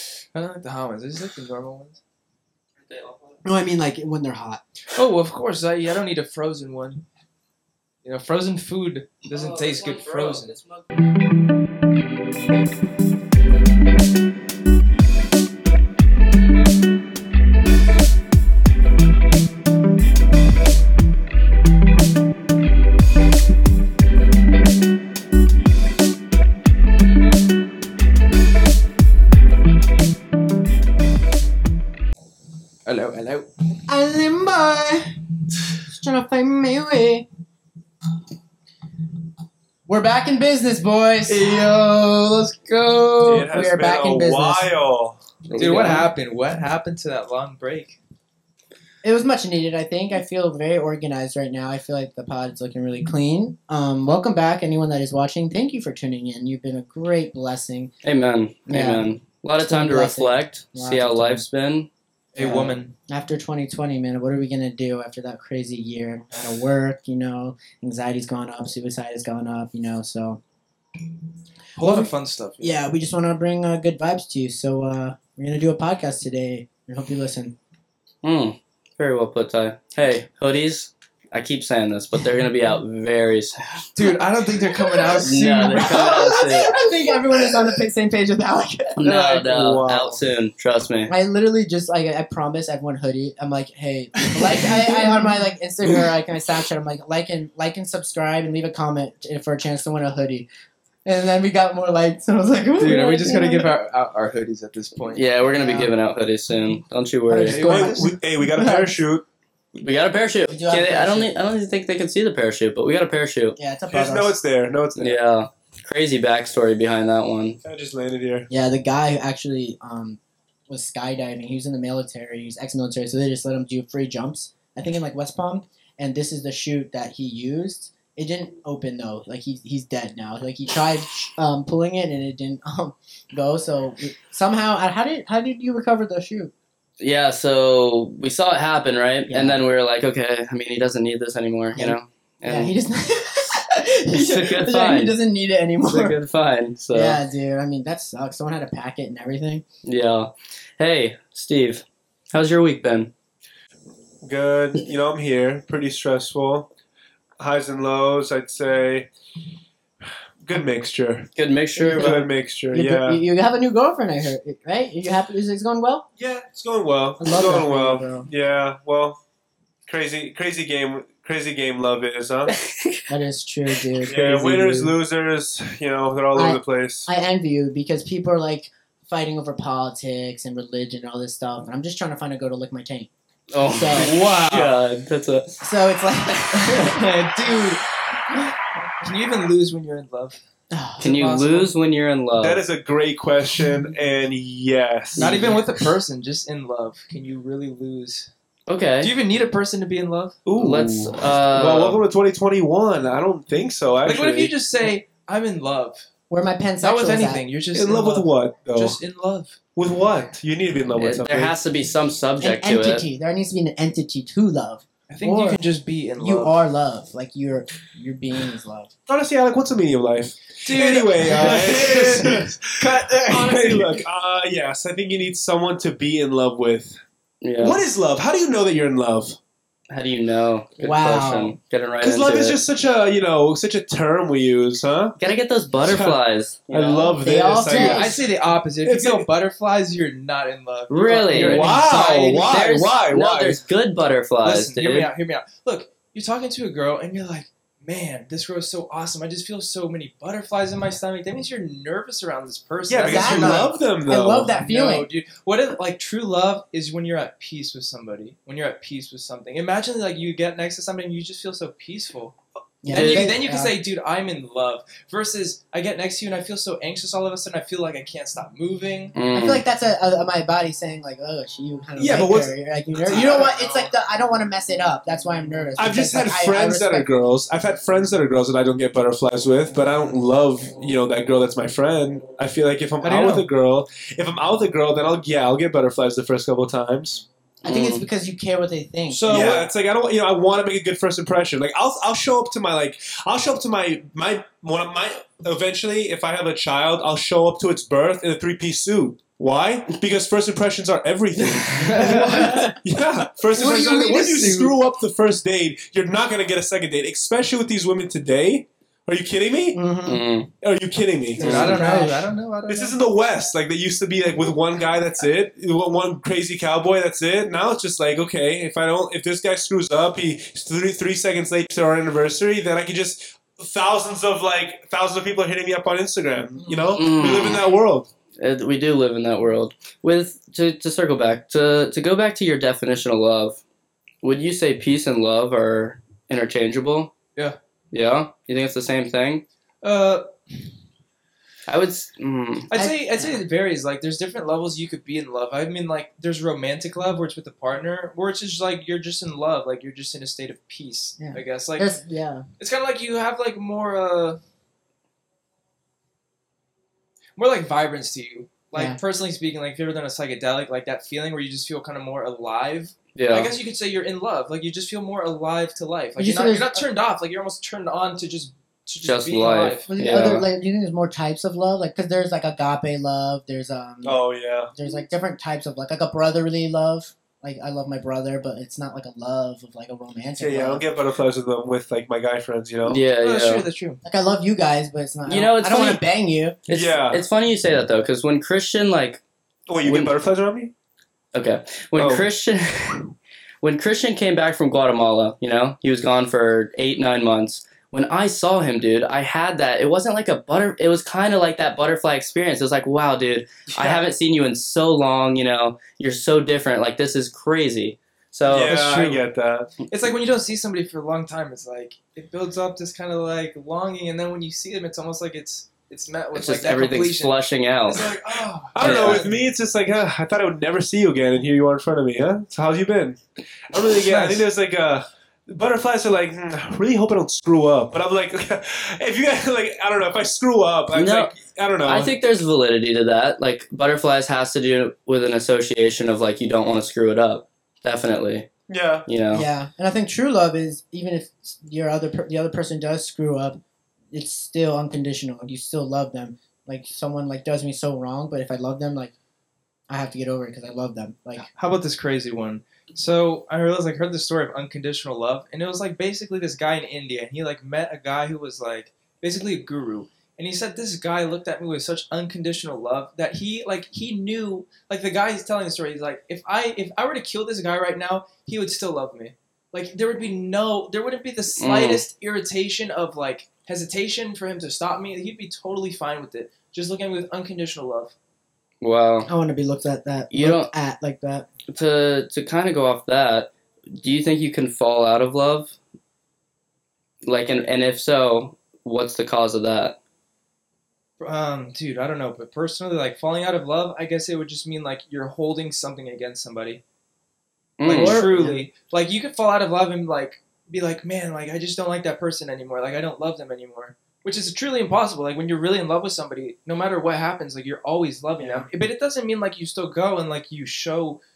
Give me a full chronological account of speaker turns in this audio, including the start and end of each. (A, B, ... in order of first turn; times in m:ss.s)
0:00.3-0:02.0 A
0:02.8-0:03.4 B
0:03.4-0:04.6 C
0:04.9-0:07.0 A
0:08.0-0:10.5 A
0:09.3-0:10.8 B
0:32.8-0:33.5 A
0:33.9-0:35.1 C
0:35.9-0:37.3 C
0:39.9-0:44.7 C
0:41.3-0:43.5 A
0:43.2-0:45.2 D
0:45.5-0:46.0 B
0:45.5-0:48.0 A
0:49.0-0:57.9 C
0:58.0-1:01.9 B
0:58.7-0:59.1 C
0:59.7-1:01.4 C
1:02.3-1:02.9 A
1:02.4-1:10.4 C
1:11.8-1:12.8 A
1:11.8-1:17.5 C
1:18.2-1:23.9 B
1:24.0-1:27.6 A
1:24.7-1:29.0 C
1:25.2-1:26.7 B
1:29.0-1:31.1 B
1:29.1-1:30.2 D
1:31.1-1:40.5 C
1:34.3-1:36.1 A
1:41.0-1:43.7 C
1:42.8-1:45.2 A
1:45.1-1:47.7 B
1:45.4-1:45.9 C
1:47.3-1:49.0 C
1:47.4-1:48.1 A
1:47.6-1:49.2 D
1:49.8-1:53.6 B
1:50.5-1:51.3 C
1:53.6-1:54.4 C
1:53.9-1:55.2 D
1:55.0-1:57.6 B
1:57.6-1:58.5 D
1:58.5-2:16.5 C
2:17.0-2:22.7 B
2:19.3-2:19.6 C
2:21.7-2:26.2 C
2:24.1-2:25.2 B
2:25.8-2:27.2 B
2:26.9-2:29.6 C
2:29.8-2:33.1 B
2:34.2-2:36.7 D
2:37.4-2:39.1 D
2:40.4-2:41.3 D
2:41.4-2:42.2 B
2:41.8-2:46.0 C
2:42.0-2:43.2 D
2:46.2-2:49.2 D
2:47.2-2:48.3 C
2:49.9-2:52.5 D
2:52.5-2:53.1 B
2:53.1-2:54.9 C
2:54.0-2:57.1 D
2:56.3-3:03.1 C
3:03.5-3:05.6 B
3:03.6-3:04.1 C
3:03.9-3:04.7 A
3:05.6-3:07.8 C
3:06.7-3:07.8 A
3:08.3-3:08.6 C
3:09.0-3:10.4 A
3:10.7-3:11.0 C
3:11.0-3:11.7 A
3:11.0-3:12.6 B
3:12.4-3:15.6 D
3:15.2-3:15.6 B
3:15.2-3:18.3 A
3:18.7-3:19.1 B
3:19.0-3:20.4 A
3:20.4-3:24.5 D
3:20.6-3:22.0 B
3:24.0-3:26.0 A
3:26.3-3:27.4 C
3:26.8-3:29.6 A
3:27.7-3:29.0 D
3:29.8-3:31.6 D
3:31.0-3:33.0 B
3:32.4-3:35.6 C
3:35.1-3:36.6 A
3:36.2-3:38.9 C
3:39.1-3:47.0 D
3:40.6-3:44.0 A
3:47.4-3:47.8 B
3:47.6-3:49.4 D
3:49.9-3:52.6 B
3:50.8-3:51.6 C
3:52.0-3:55.2 D
3:55.2-3:57.1 B
3:55.8-3:56.2 D
3:56.7-3:58.3 D
3:57.2-3:58.2 C
3:57.7-4:02.8 A
3:58.8-3:59.3 D
4:00.9-4:01.7 B
4:01.3-4:03.6 D
4:01.6-4:01.9 C
4:02.3-4:05.1 B
4:04.4-4:13.7 A
4:12.9-4:14.6 D
4:13.0-4:15.1 C
4:14.6-4:22.3 A
4:22.8-4:23.8 C
4:22.9-4:29.2 A
4:22.9-4:23.3 B
4:29.1-4:29.6 B
4:29.3-4:37.1 C
4:32.0-4:33.7 D
4:33.1-4:33.5 A
4:35.8-4:47.2 D
4:43.0-4:43.4 A
4:47.6-4:48.0 B
4:47.6-4:49.5 C
4:49.1-5:09.8 D
4:49.2-4:49.6 A
5:01.7-5:02.7 A
5:01.7-5:02.8 C
5:03.5-5:04.8 A
5:09.7-5:10.2 C
5:10.0-5:10.5 B
5:10.6-5:11.8 D
5:11.4-5:12.2 C
5:11.4-5:13.0 A
5:11.4-5:11.8 B
5:12.7-5:28.1 D
5:26.5-5:27.0 C
5:26.9-5:27.7 B
5:28.4-5:33.6 B
5:34.2-5:37.1 B
5:37.9-5:39.4 B
5:39.8-5:40.3 A
5:41.7-5:42.7 B
5:42.7-5:52.0 A
5:42.7-5:43.4 C
5:51.2-5:52.4 C
5:52.6-5:54.4 A
5:57.4-6:09.9 A
5:58.7-5:59.0 C
6:03.1-6:03.5 B
6:06.2-6:06.8 C
6:09.0-6:10.5 B
6:09.9-6:20.8 C
6:14.0-6:14.7 D
6:20.4-6:23.0 D
6:22.8-6:23.6 B
6:23.2-6:24.0 A
6:24.0-6:26.6 C
6:25.3-6:26.0 B
6:26.7-6:29.2 B
6:26.7-6:27.2 D
6:29.7-6:30.7 D
6:29.8-6:30.1 B
6:31.3-6:48.8 B
6:31.9-6:32.3 D
6:43.8-6:44.0 D
6:48.5-6:49.7 D
6:48.5-6:49.2 A
6:49.9-6:59.4 A
6:56.3-6:58.1 B
6:58.7-7:12.2 D
6:58.8-6:59.3 B
7:04.0-7:04.4 A
7:10.9-7:11.3 B
7:11.8-7:18.5 B
7:18.7-7:19.1 D
7:19.1-7:19.4 B
7:19.3-7:23.6 C
7:24.1-7:29.1 C
7:29.9-7:31.5 C
7:31.4-7:58.1 A
7:51.6-7:52.0 B
7:58.8-7:59.3 B
7:59.2-8:01.5 C
8:00.3-8:00.7 B
8:01.7-8:05.7 B
8:07.2-8:10.0 B
8:11.2-8:16.8 A
8:17.8-8:18.2 B
8:17.8-8:18.6 C
8:17.8-8:31.2 A
8:28.4-8:28.7 D